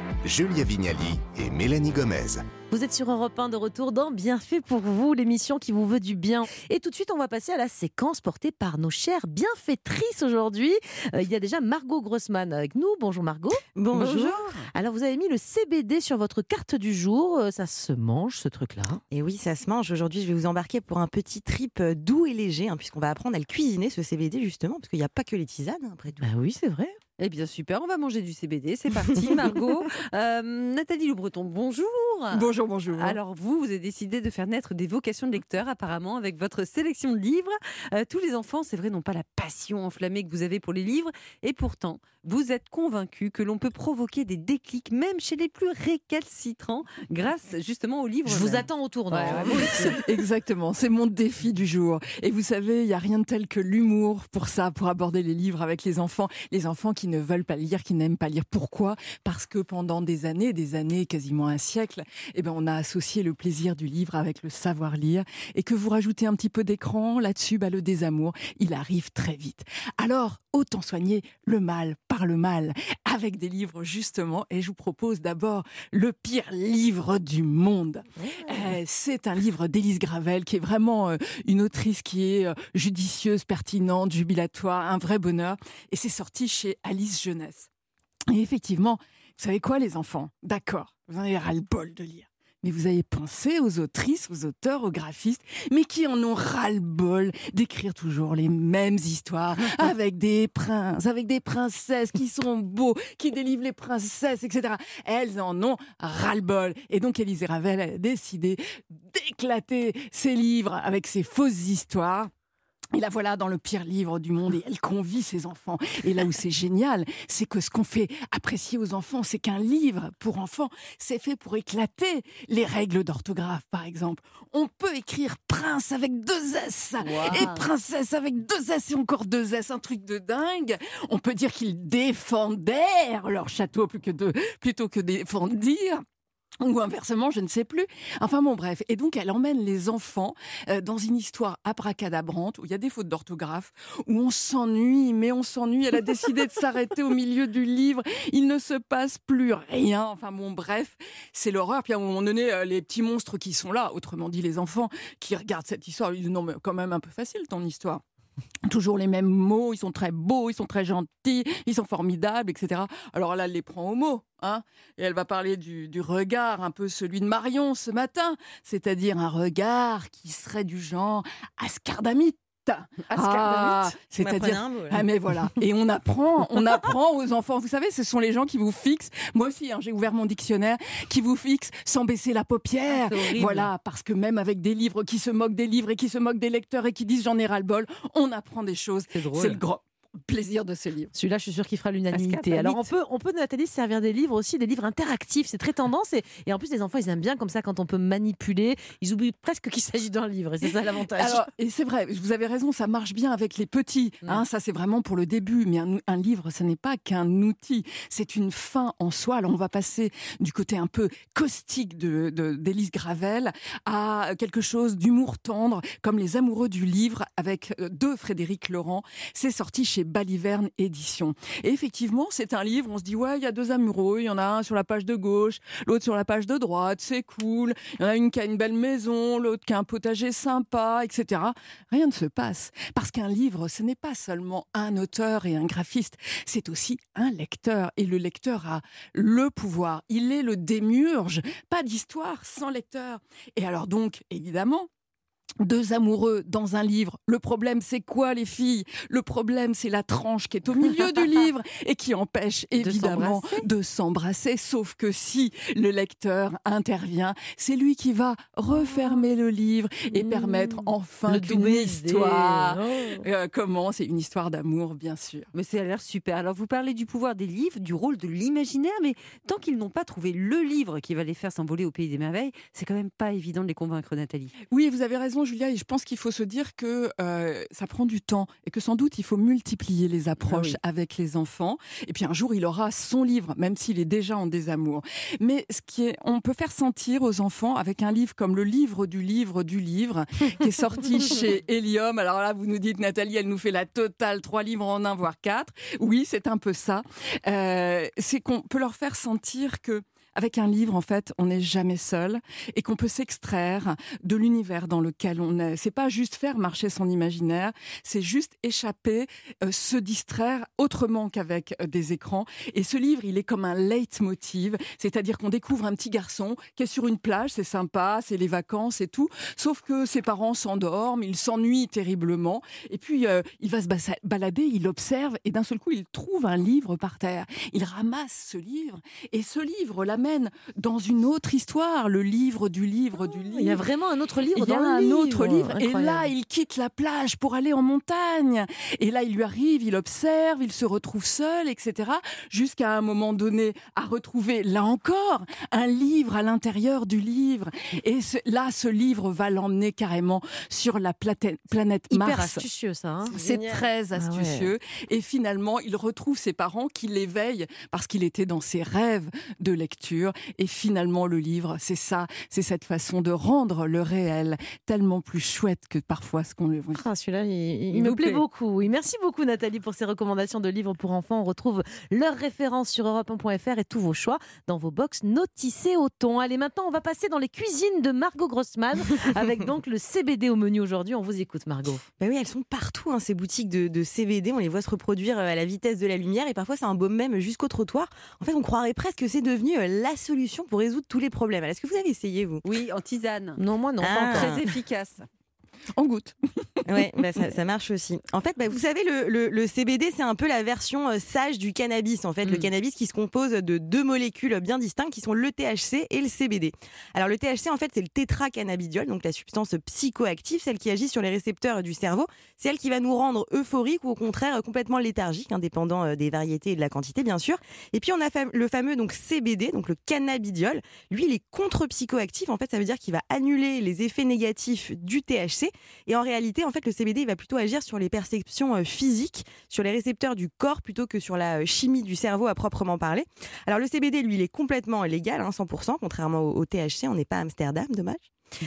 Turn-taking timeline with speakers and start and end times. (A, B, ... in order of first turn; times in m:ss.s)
0:00.2-0:02.4 A
0:02.7-0:19.0 B
0:13.8-0:14.6 C
0:19.1-0:26.2 C
0:26.2-0:27.0 B
0:27.2-0:49.9 D
0:32.3-0:33.2 E
0:48.2-0:49.9 B
0:49.5-1:27.7 E
1:28.3-1:52.3 E
1:52.9-2:16.0 E
2:07.0-2:07.7 D
2:16.6-2:38.0 E
2:38.6-3:11.1 E
2:53.1-2:53.7 D
2:54.1-2:55.0 C
3:02.9-3:03.7 D
3:09.1-3:09.6 D
3:11.1-3:21.5 B
3:12.1-3:12.9 E
3:21.2-4:04.9 E
4:05.6-4:25.5 E
4:12.8-4:13.6 D
4:20.2-4:20.7 B
4:21.3-4:23.2 B
4:25.5-4:34.5 D
4:34.7-5:33.8 E
4:40.4-4:40.8 D
5:33.5-5:36.3 B
5:34.5-5:52.6 E
5:52.1-5:53.3 B
5:53.3-5:53.8 C
5:53.3-6:07.0 E
5:54.1-5:54.7 B
6:06.9-6:22.0 B
6:07.9-6:08.4 D
6:22.2-6:32.6 C
6:32.6-6:33.6 D
6:33.6-6:34.6 B
6:34.0-6:34.7 C
6:34.2-6:35.2 D
6:36.0-6:37.4 E
6:36.8-7:18.3 C